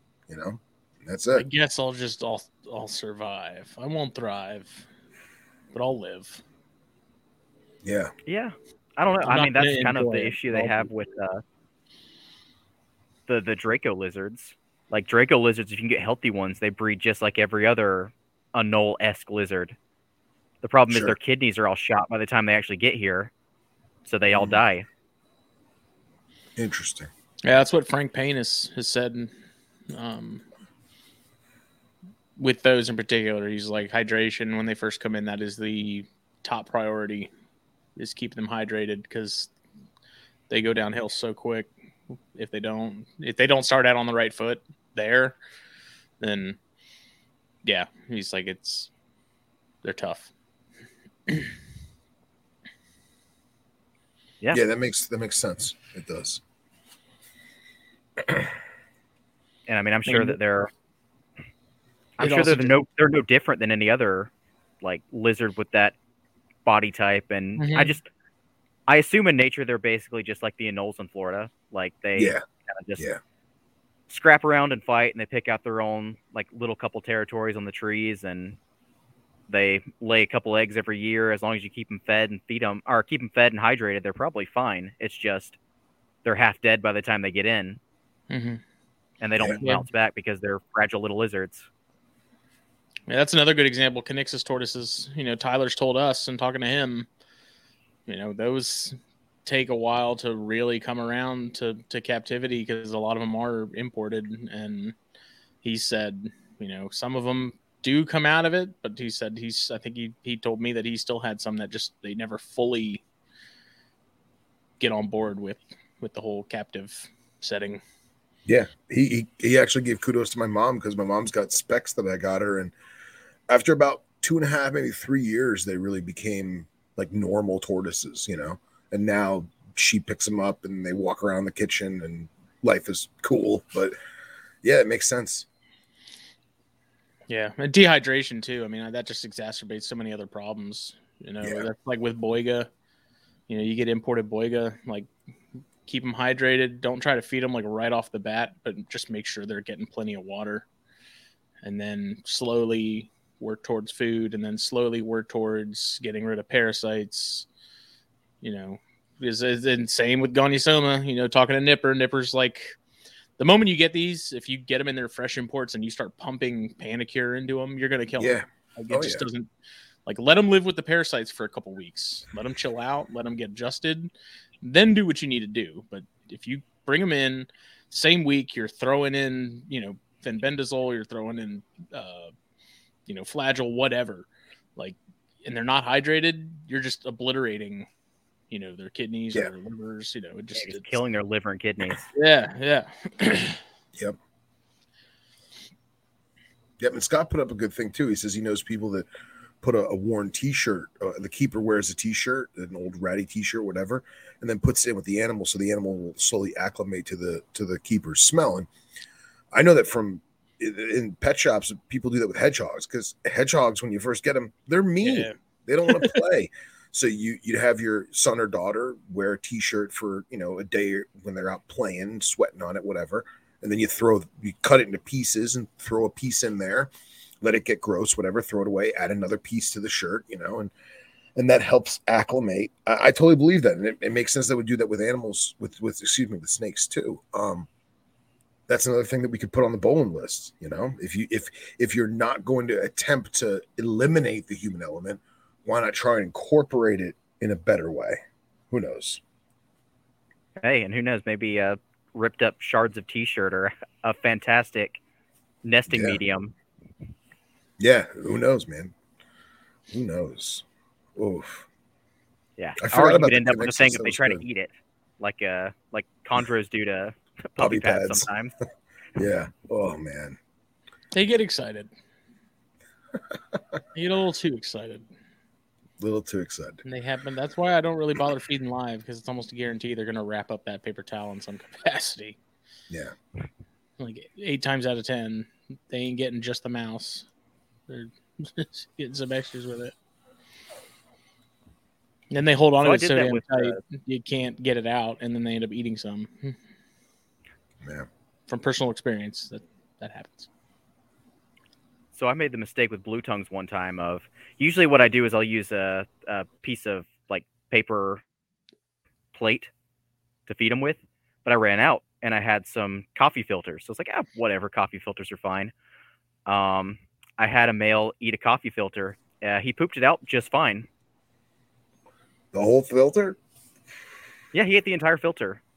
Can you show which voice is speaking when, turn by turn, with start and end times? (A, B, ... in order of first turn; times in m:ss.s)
0:00.3-0:01.5 A
0:01.3-0:04.9 B
0:05.7-0:06.4 B
0:07.8-0:08.1 A
0:08.3-0:11.4 C
0:09.2-0:10.9 B
0:13.3-0:19.8 C
0:20.6-0:23.3 C
0:20.9-0:21.2 A
0:24.1-0:24.9 C
0:24.3-0:24.6 A
0:26.6-0:27.1 A
0:27.4-0:29.3 B
0:29.9-0:30.5 B
0:32.4-0:37.3 B
0:38.0-0:39.5 B
0:40.5-0:45.4 B
0:46.2-0:46.6 B
0:47.6-0:48.9 B
0:49.8-0:50.3 B
0:54.5-0:56.4 A
0:58.2-0:58.5 A
0:59.7-1:00.7 C
1:00.1-1:00.4 B
1:02.2-1:04.3 C
1:02.2-1:02.7 B
1:04.8-1:06.0 C
1:06.7-1:08.1 C
1:07.6-1:08.0 B
1:08.9-1:13.0 C
1:12.2-1:12.4 A
1:14.1-1:18.6 C
1:19.5-1:25.6 C
1:26.2-1:27.8 C
1:28.3-1:28.6 B
1:29.2-1:31.7 C
1:29.6-1:29.8 B
1:33.1-1:37.1 B
1:38.1-1:45.0 B
1:45.6-1:53.0 B
1:54.8-1:57.8 B
1:58.5-2:02.7 A
2:03.5-2:14.0 A
2:14.6-2:15.5 A
2:17.3-2:22.7 B
2:21.4-2:21.7 A
2:23.5-2:25.1 B
2:25.9-2:30.7 B
2:31.6-2:37.5 B
2:38.4-2:42.8 B
2:43.4-2:49.5 B
2:48.2-2:49.3 A
2:50.1-3:02.3 B
3:03.1-3:07.9 B
3:08.5-3:11.0 B
3:10.6-3:12.1 C
3:12.1-3:13.6 B
3:16.8-3:19.1 A
3:19.6-3:28.7 A
3:29.5-3:46.9 A
3:35.0-3:35.4 B
3:35.9-3:36.1 B
3:47.4-3:50.7 A
3:51.4-3:57.7 A
3:58.7-4:09.2 A
4:10.6-4:15.0 C
4:15.6-4:16.6 C
4:15.9-4:16.2 A
4:17.8-4:18.9 A
4:19.9-4:20.6 A
4:21.2-4:21.7 A
4:22.6-4:28.5 C
4:22.8-4:24.4 A
4:27.6-4:28.3 A
4:29.2-4:30.4 A
4:31.1-4:31.9 B
4:33.3-4:33.6 A
4:33.9-4:35.1 B
4:36.0-4:36.8 A
4:36.8-4:42.4 B
4:42.9-4:43.2 A
4:44.0-4:47.3 B
4:47.9-4:50.0 B
4:52.3-4:56.6 B
4:52.8-4:53.8 C
4:57.8-4:58.1 A
4:58.5-5:00.5 B
5:02.2-5:08.2 C
5:09.3-5:09.7 C
5:10.5-5:15.7 C
5:16.5-5:20.9 C
5:22.5-5:23.4 A
5:24.5-5:25.6 C